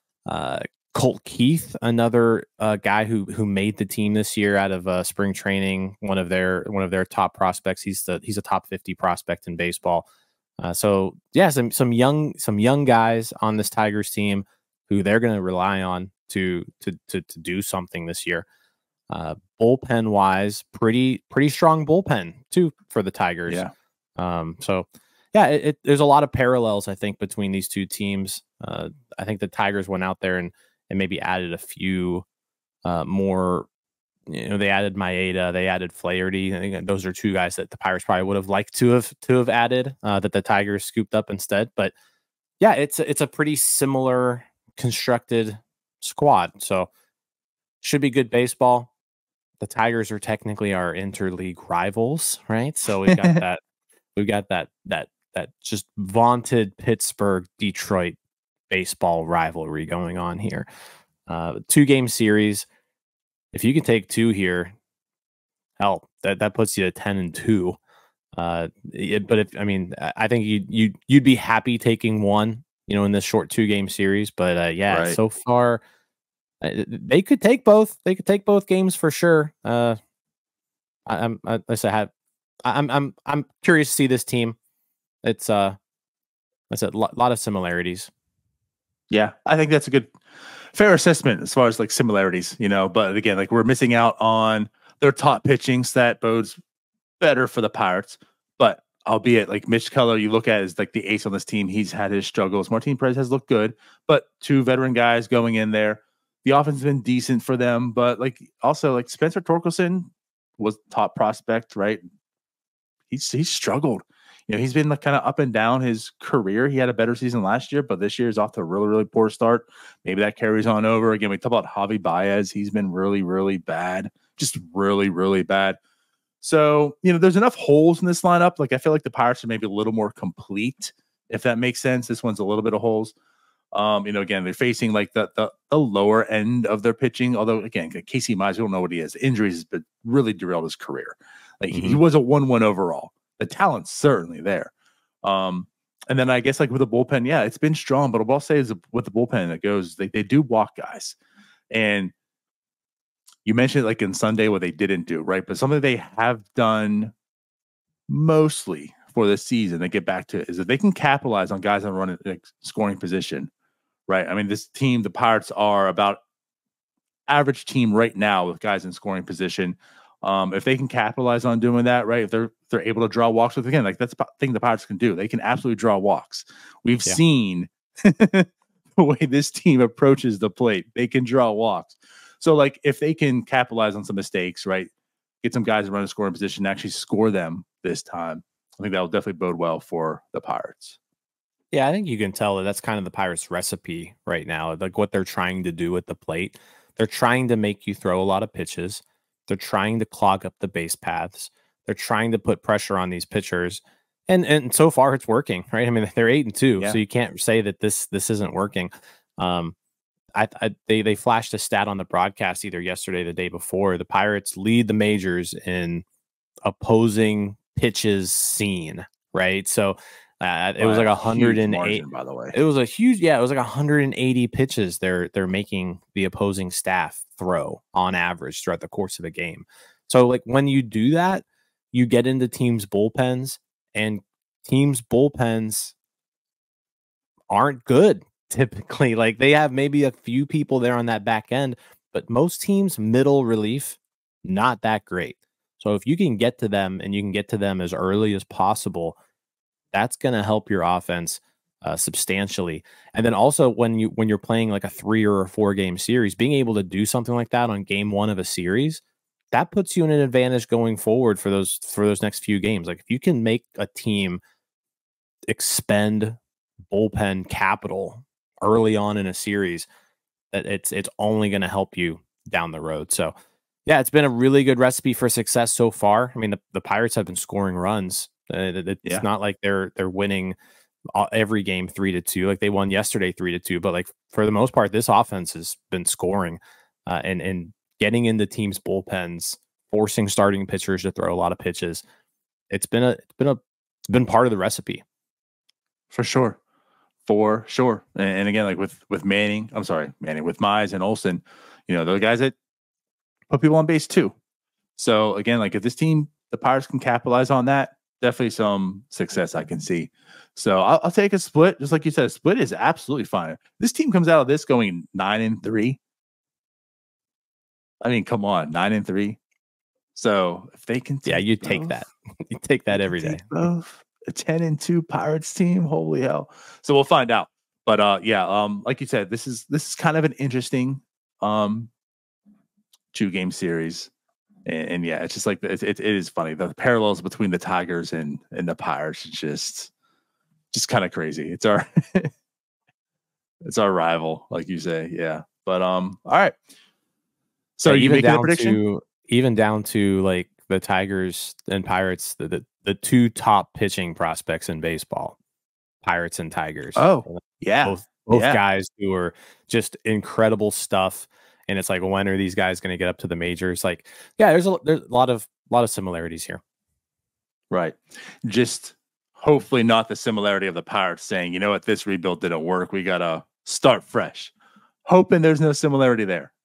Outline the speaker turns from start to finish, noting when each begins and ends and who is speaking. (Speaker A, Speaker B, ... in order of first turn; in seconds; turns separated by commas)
Speaker A: 0.3-10.1, Speaker A: 10.6-18.5, Speaker A: 19.1-23.6, Speaker A: 24.2-32.2, Speaker A: 32.9-33.7, Speaker A: 34.3-41.9, Speaker A: 42.6-46.9, Speaker A: 47.8-48.9, Speaker A: 49.6-53.6, Speaker B: 53.1-53.4, Speaker A: 54.2-58.2, Speaker A: 58.7-60.7, Speaker A: 61.3-62.7, Speaker A: 63.5-64.8, Speaker A: 65.8-67.8, Speaker A: 68.3-75.8, Speaker B: 74.9-75.2, Speaker A: 76.6-80.0, Speaker A: 81.1-82.1, Speaker A: 82.7-84.6, Speaker A: 85.2-85.8, Speaker A: 86.7-88.1, Speaker B: 89.1-90.2, Speaker B: 90.7-96.6, Speaker B: 97.2-112.0, Speaker B: 113.1-125.8, Speaker B: 126.4-133.1, Speaker B: 133.7-144.7, Speaker A: 141.7-142.0, Speaker B: 145.2-151.2, Speaker B: 151.7-152.1, Speaker B: 153.4-157.1, Speaker B: 158.1-163.5, Speaker B: 164.1-166.2, Speaker B: 167.3-184.9, Speaker B: 185.4-191.0, Speaker A: 191.7-209.7, Speaker A: 210.3-216.0, Speaker A: 216.7-235.9, Speaker B: 220.8-222.6, Speaker A: 237.5-249.2, Speaker A: 249.9-264.4, Speaker A: 265.5-269.9, Speaker A: 270.5-273.3, Speaker A: 273.9-280.6, Speaker A: 281.1-292.0, Speaker A: 292.7-295.0, Speaker B: 296.1-296.6, Speaker B: 297.3-302.6, Speaker B: 303.5-304.3, Speaker B: 305.0-316.0, Speaker B: 318.0-319.4, Speaker B: 320.1-322.0, Speaker A: 321.3-323.5, Speaker B: 322.9-331.9, Speaker B: 333.1-334.1, Speaker B: 334.6-339.9, Speaker B: 340.7-342.3, Speaker B: 343.6-346.6, Speaker B: 347.8-348.8, Speaker A: 347.9-355.4, Speaker A: 356.0-366.6, Speaker B: 357.0-358.6, Speaker B: 367.7-374.5, Speaker B: 375.1-376.5